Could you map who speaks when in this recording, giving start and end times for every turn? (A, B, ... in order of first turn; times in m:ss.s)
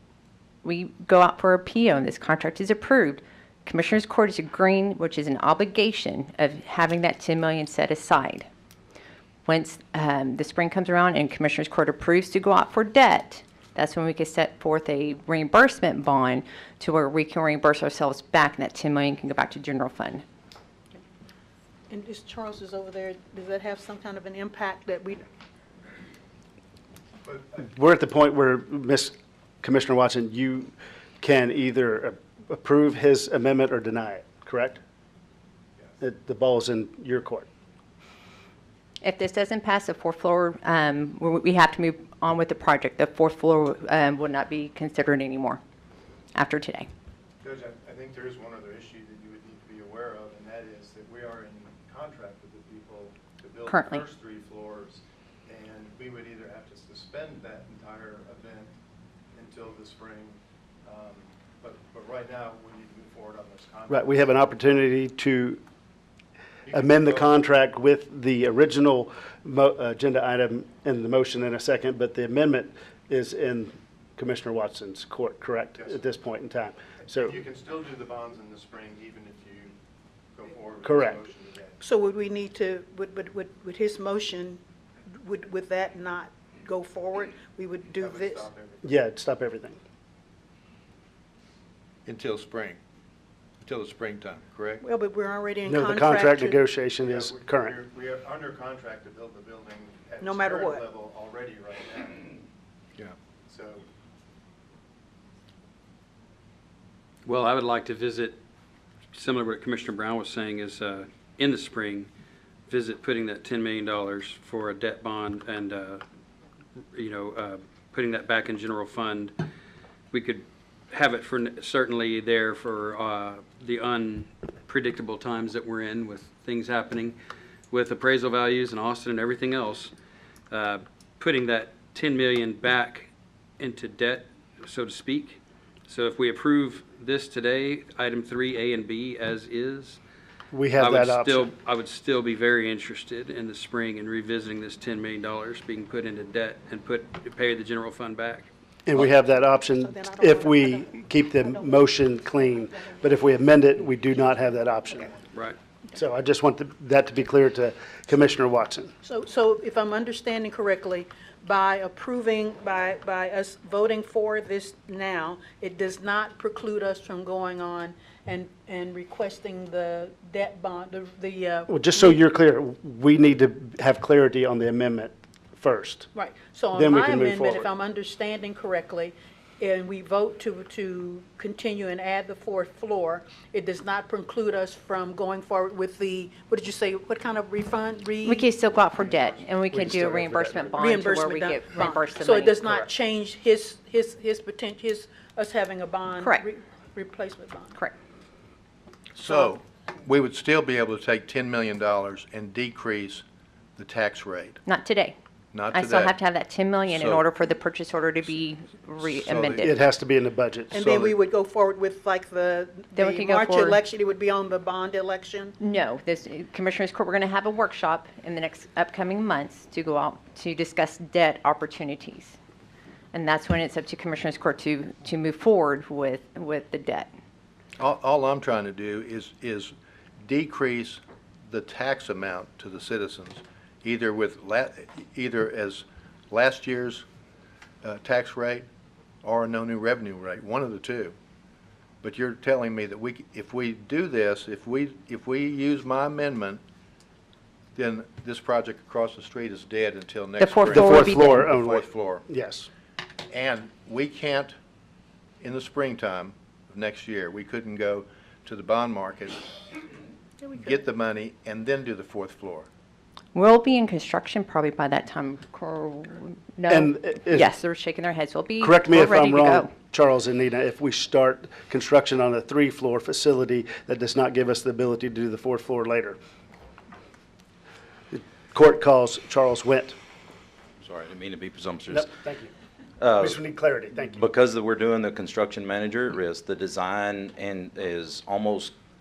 0:00.6-0:08.5 A
0:09.5-0:20.2 A
0:21.9-0:25.2 B
0:27.6-0:34.8 C
0:36.0-0:37.5 C
0:39.0-0:45.6 A
0:46.4-0:46.9 A
0:47.4-0:58.7 D
0:53.7-0:54.1 A
0:59.3-1:04.4 D
1:03.9-1:05.6 C
1:06.7-1:07.4 D
1:06.7-1:17.4 C
1:17.1-1:19.7 D
1:20.4-1:21.8 D
1:20.8-1:21.2 C
1:21.8-1:28.5 B
1:27.9-1:28.9 D
1:28.8-1:29.8 C
1:32.1-1:32.8 E
1:33.6-1:34.9 E
1:34.8-1:36.6 B
1:35.7-1:37.8 C
1:37.0-1:42.4 D
1:40.2-1:40.9 B
1:43.5-1:43.8 D
1:47.2-1:48.4 F
1:49.1-1:52.1 F
1:52.7-1:56.0 F
1:56.9-1:59.3 F
2:00.1-2:07.2 F
2:07.7-2:09.9 F
2:10.5-2:20.0 F
2:20.5-2:21.5 C
2:20.8-2:28.5 F
2:28.9-2:35.1 C
2:29.2-2:30.9 B
2:35.9-2:38.9 C
2:39.0-2:52.1 B
2:51.7-2:56.1 C
2:56.2-3:08.6 B
2:56.7-2:57.7 C
3:08.2-3:12.6 A
3:09.7-3:10.8 C
3:10.8-3:17.8 B
3:16.2-3:16.4 A
3:19.2-3:23.2 E
3:23.8-3:24.6 E
3:24.7-3:25.2 A
3:25.5-3:26.2 E
3:25.7-3:29.8 A
3:26.9-3:27.2 E
3:29.0-3:29.6 E
3:29.6-3:30.9 C
3:30.7-3:35.6 B
3:30.8-3:31.2 E
3:33.0-3:33.8 A
3:35.6-3:42.4 A
3:43.1-3:47.1 A
3:47.8-3:57.0 E
3:57.8-3:58.7 E
3:59.2-4:01.2 E
4:02.0-4:06.6 E
4:07.8-4:12.2 E
4:10.4-4:11.4 A
4:10.7-4:12.7 C
4:13.3-4:14.6 E
4:15.4-4:19.6 E
4:20.4-4:22.7 E
4:23.3-4:29.7 A
4:26.7-4:27.5 C
4:28.6-4:36.2 C
4:38.1-4:40.0 C
4:40.8-4:42.1 G
4:41.9-4:42.5 C
4:43.0-4:43.4 G
4:43.2-4:44.3 C
4:44.1-4:48.7 G